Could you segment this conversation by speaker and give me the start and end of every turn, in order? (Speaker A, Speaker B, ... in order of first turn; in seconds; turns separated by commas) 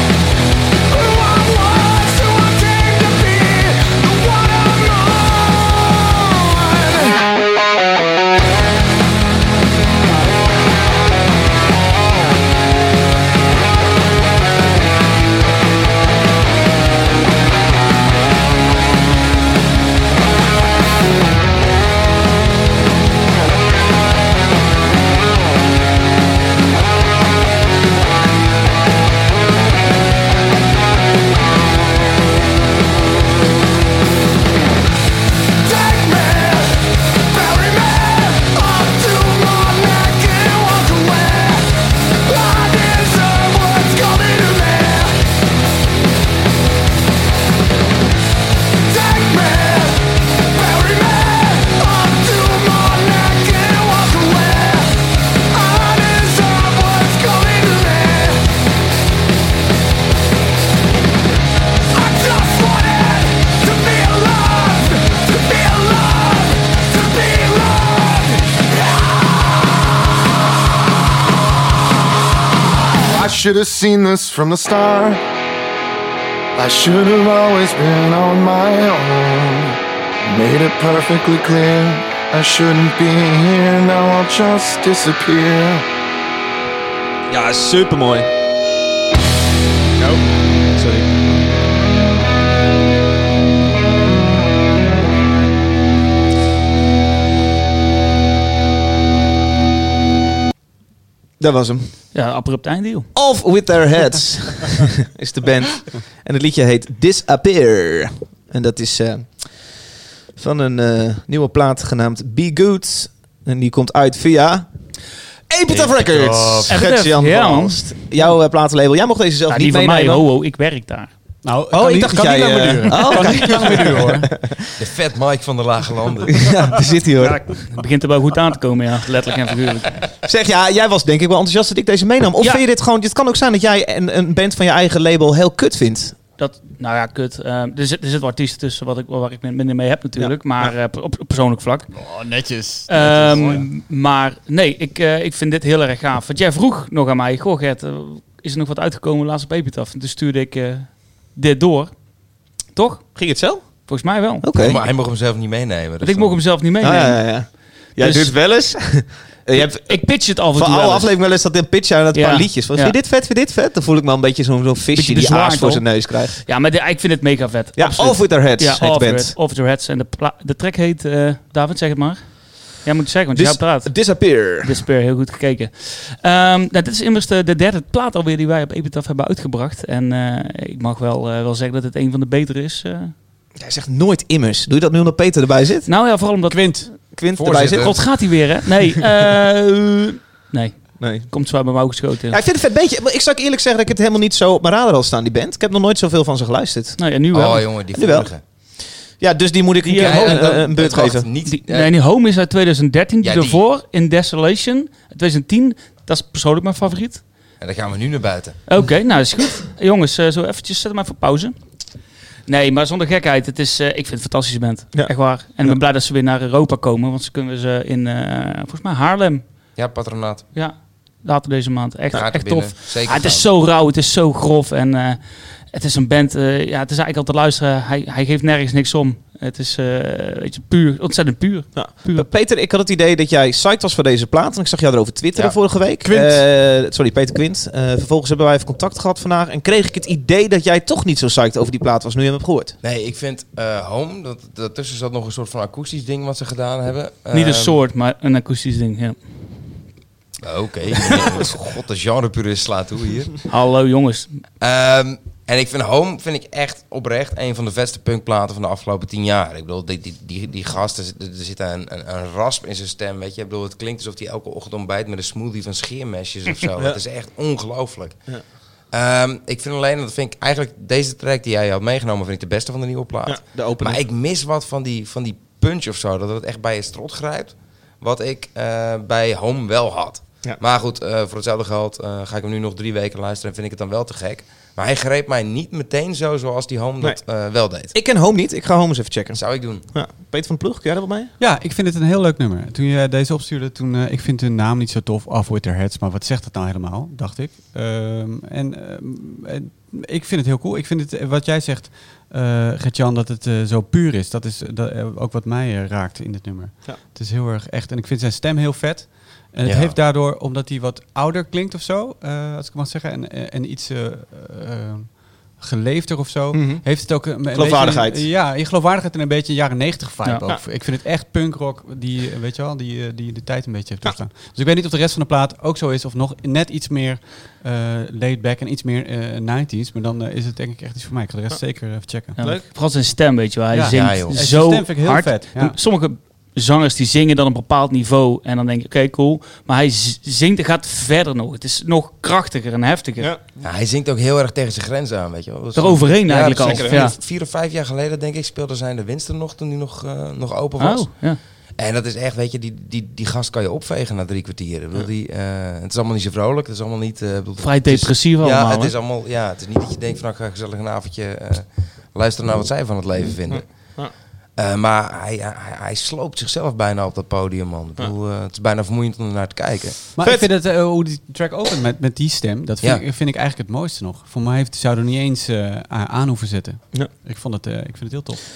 Speaker A: 0.9-7.2, Speaker A: 35.6-45.3, Speaker A: 48.9-58.5, Speaker A: 61.9-69.7, Speaker A: 73.0-75.2, Speaker A: 76.5-85.8, Speaker B: 87.3-88.3, Speaker B: 90.7-91.1, Speaker B: 101.4-101.9, Speaker C: 102.1-103.1, Speaker B: 103.2-109.8, Speaker B: 110.3-114.7, Speaker B: 115.5-120.3, Speaker D: 116.0-116.7, Speaker C: 116.7-117.9, Speaker C: 119.5-121.1, Speaker D: 121.4-124.3, Speaker B: 121.7-124.6, Speaker E: 124.8-126.5, Speaker B: 126.4-127.6, Speaker C: 127.3-130.0, Speaker B: 130.2-136.2, Speaker C: 136.4-141.9, Speaker D: 141.9-143.6, Speaker C: 142.9-152.2, Speaker C: 152.7-154.5, Speaker B: 153.2-154.8, Speaker E: 154.6-156.4, Speaker C: 156.0-158.3, Speaker B: 156.8-166.4, Speaker C: 159.6-161.1, Speaker C: 162.1-163.0, Speaker C: 164.9-183.1, Speaker B: 167.8-169.4, Speaker B: 173.3-174.8, Speaker B: 183.6-185.9, Speaker C: 185.9-187.1, Speaker D: 186.5-187.0, Speaker B: 187.1-188.1, Speaker E: 187.3-188.0, Speaker C: 187.7-192.4, Speaker B: 191.0-191.3, Speaker B: 192.3-197.1, Speaker C: 197.0-197.7, Speaker E: 197.3-198.4, Speaker B: 197.9-201.3, Speaker C: 199.8-200.6, Speaker E: 200.0-201.9, Speaker C: 201.4-207.2, Speaker E: 203.2-203.6, Speaker E: 207.6-208.6, Speaker C: 208.7-211.6, Speaker C: 212.5-219.5, Speaker B: 214.9-215.8, Speaker E: 219.8-220.5, Speaker C: 220.5-232.3, Speaker E: 222.1-223.5, Speaker B: 231.7-242.8, Speaker D: 236.0-236.4, Speaker E: 242.8-247.8, Speaker C: 247.3-249.4, Speaker E: 250.4-253.4, Speaker C: 253.5-254.4, Speaker E: 254.6-268.4, Speaker E: 268.9-287.9, Speaker B: 273.2-274.0, Speaker B: 287.9-291.3, Speaker E: 289.3-289.9, Speaker D: 291.4-332.4, Speaker E: 309.6-310.0, Speaker B: 316.5-318.3, Speaker C: 332.4-343.3, Speaker B: 332.4-332.6, Speaker D: 333.7-335.8, Speaker E: 333.9-334.4, Speaker E: 343.6-364.0, Speaker C: 345.8-347.2, Speaker B: 346.6-347.1, Speaker C: 350.8-351.4, Speaker C: 357.6-358.9, Speaker B: 363.5-364.1, Speaker E: 364.6-370.1, Speaker D: 370.2-378.4, Speaker B: 370.2-370.5